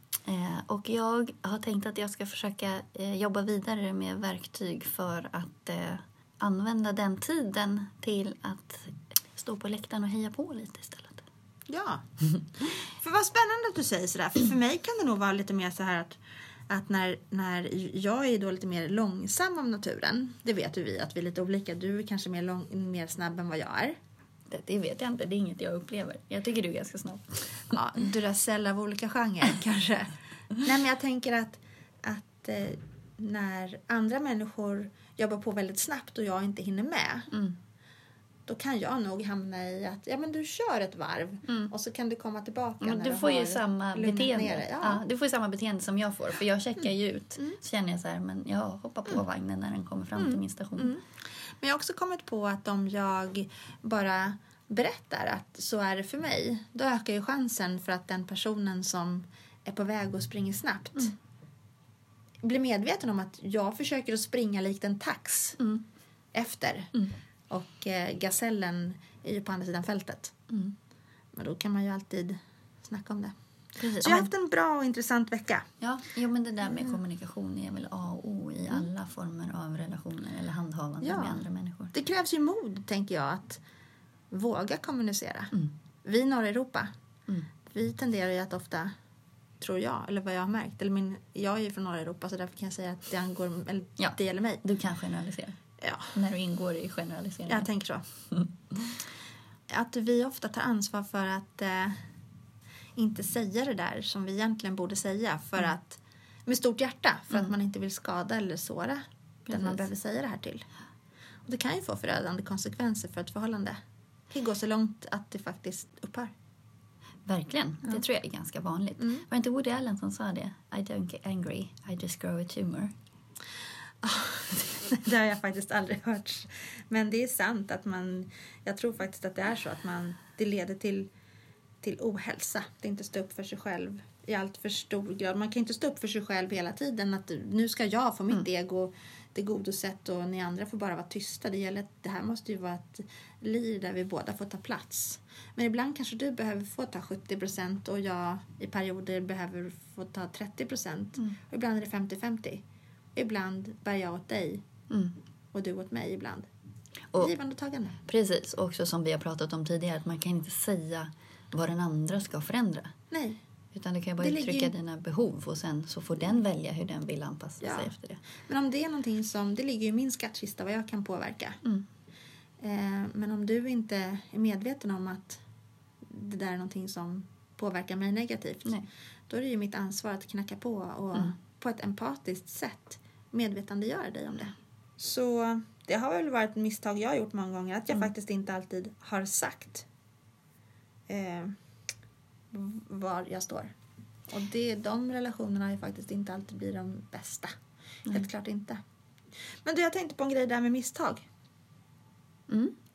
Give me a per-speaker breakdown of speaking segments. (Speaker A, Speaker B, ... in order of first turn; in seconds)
Speaker A: 0.2-11.2, 24.5-27.8, 37.3-37.6, 42.8-51.0, 65.6-65.8, 70.5-70.7, 73.8-74.3, 75.8-81.9, 94.0-95.6, 96.1-97.7, 98.3-98.9, 109.5-109.8, 117.2-122.9, 154.9-155.2, 158.1-162.9, 163.7-168.2, 202.5-202.7
Speaker B: 11.7-12.0, 12.6-23.9, 27.7-37.3, 38.5-45.0, 50.2-51.0, 51.6-61.1, 62.4-65.6, 66.3-66.9, 67.5-70.3, 71.3-73.3, 73.9-75.7, 81.0-83.6, 84.3-85.5, 86.0-86.9, 87.6-88.9, 89.6-94.6, 95.8-96.1, 97.5-98.0, 99.7-102.0, 103.0-110.7, 111.5-113.8, 114.3-116.3, 124.0-131.1, 131.8-152.6, 153.1-154.6, 155.5-156.5, 157.2-158.0, 163.1-163.4, 164.2-164.7, 167.6-171.6, 172.6-175.4, 176.0-178.8, 179.3-189.9, 191.1-191.6, 192.5-193.7, 194.3-197.5, 198.1-198.8, 199.6-201.3